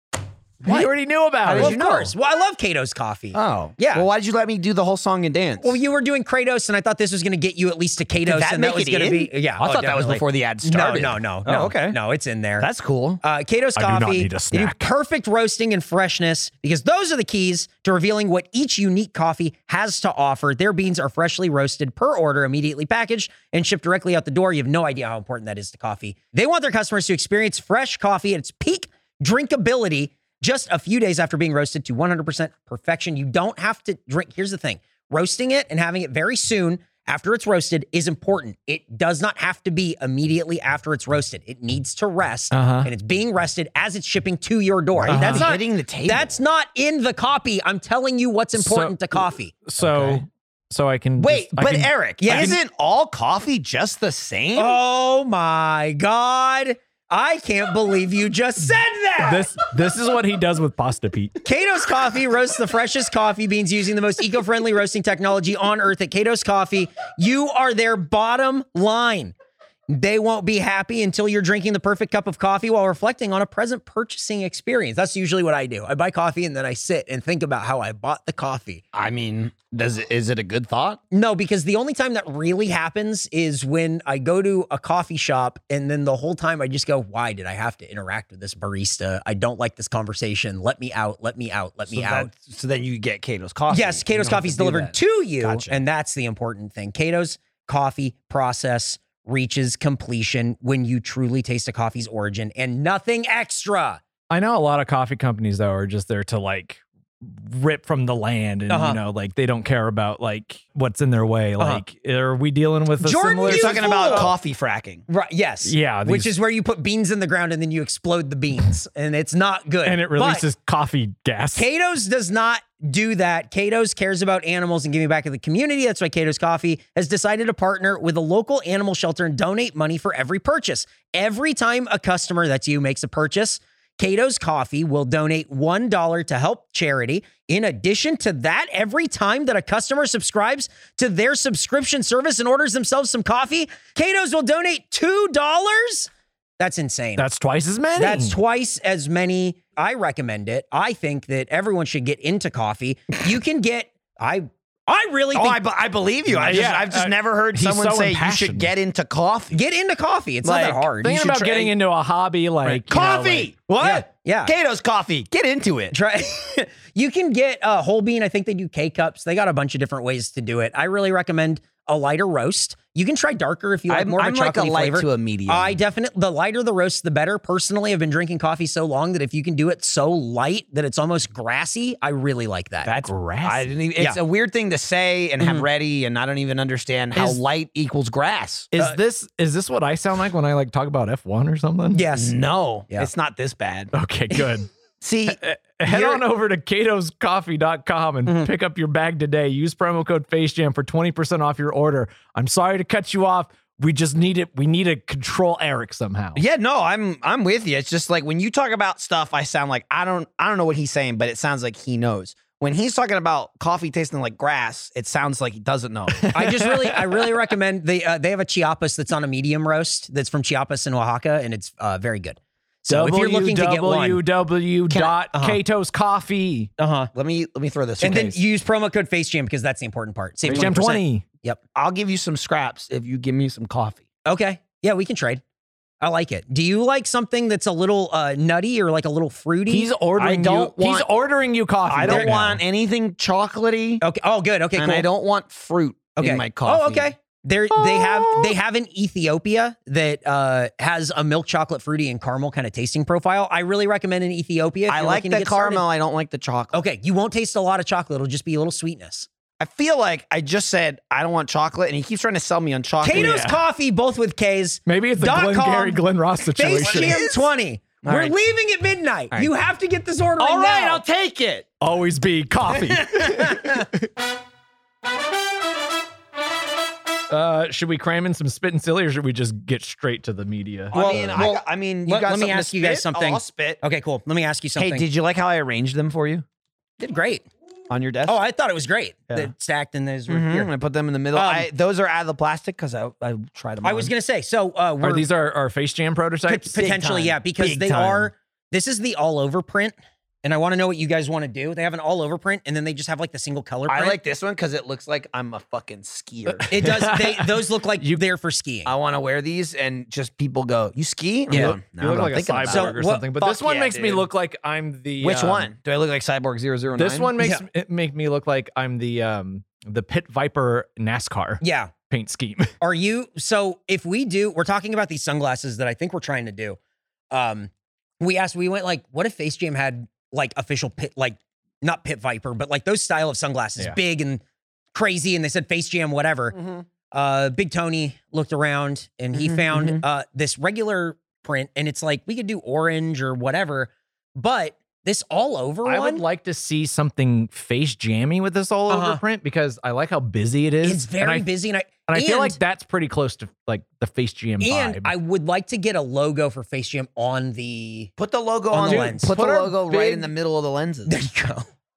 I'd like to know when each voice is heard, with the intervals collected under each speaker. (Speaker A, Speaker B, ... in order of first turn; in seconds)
Speaker A: 0.6-0.9, 1.5-2.1, 3.3-5.8, 8.2-12.0, 12.6-13.2, 45.1-46.4, 49.8-50.2, 51.2-54.8, 78.9-81.0, 91.9-95.8, 113.5-115.0, 155.3-159.6, 160.4-161.7, 162.7-165.9, 173.9-175.8, 182.9-188.7, 192.1-193.9, 195.0-196.2, 206.4-216.3, 227.1-228.4, 230.5-230.8, 231.8-234.0, 240.2-241.1, 241.9-244.0, 244.8-247.1, 254.9-256.8, 259.6-263.5, 266.8-267.5, 268.0-268.4, 270.4-271.7, 280.9-283.8, 284.8-286.4, 287.9-288.4, 290.3-294.1, 297.5-298.3, 303.9-307.0, 308.9-314.3, 315.2-317.3, 336.5-336.8, 339.3-340.0, 358.2-361.2
Speaker B: 0.6-1.8, 13.8-14.9, 42.5-42.9, 45.0-45.5, 48.5-52.6, 59.2-61.4, 104.3-114.3, 115.7-116.3, 119.8-121.7, 147.2-148.4, 156.4-158.7, 161.0-163.8, 182.9-183.7, 188.7-192.0, 193.9-194.7, 195.3-206.4, 216.1-217.2, 222.9-226.7, 230.4-231.2, 239.7-242.6, 248.0-248.3, 263.1-263.6, 264.9-267.2, 271.8-274.1, 277.3-281.4, 295.0-297.3, 306.5-308.2, 311.5-315.7, 317.0-322.7, 345.9-351.5, 352.1-355.1, 358.8-360.3
Speaker C: 1.5-4.1, 5.6-12.7, 13.2-50.1, 52.2-52.6, 54.5-59.5, 61.4-69.3, 69.9-78.8, 81.1-92.3, 93.7-104.0, 108.7-109.0, 111.6-111.8, 113.0-114.3, 115.1-120.5, 121.5-147.2, 148.0-155.6, 156.3-156.6, 159.5-161.2, 163.8-164.5, 165.9-182.9, 185.4-185.7, 191.9-192.3, 216.3-224.2, 224.9-225.6, 226.8-227.1, 228.0-231.6, 234.3-235.4, 236.0-239.9, 242.1-242.3, 244.0-245.1, 246.2-255.8, 256.7-259.3, 263.0-266.0, 266.6-271.0, 272.9-273.9, 280.9-285.1, 287.0-287.5, 288.2-290.7, 291.3-291.7, 293.8-295.3, 296.5-304.2, 306.7-308.9, 311.5-311.8, 312.7-313.3, 317.4-317.6, 321.6-321.9, 322.8-326.8, 327.3-334.4, 334.9-336.6, 337.1-346.2, 348.9-349.2, 350.8-352.6, 354.6-358.1, 358.7-359.4, 361.1-361.7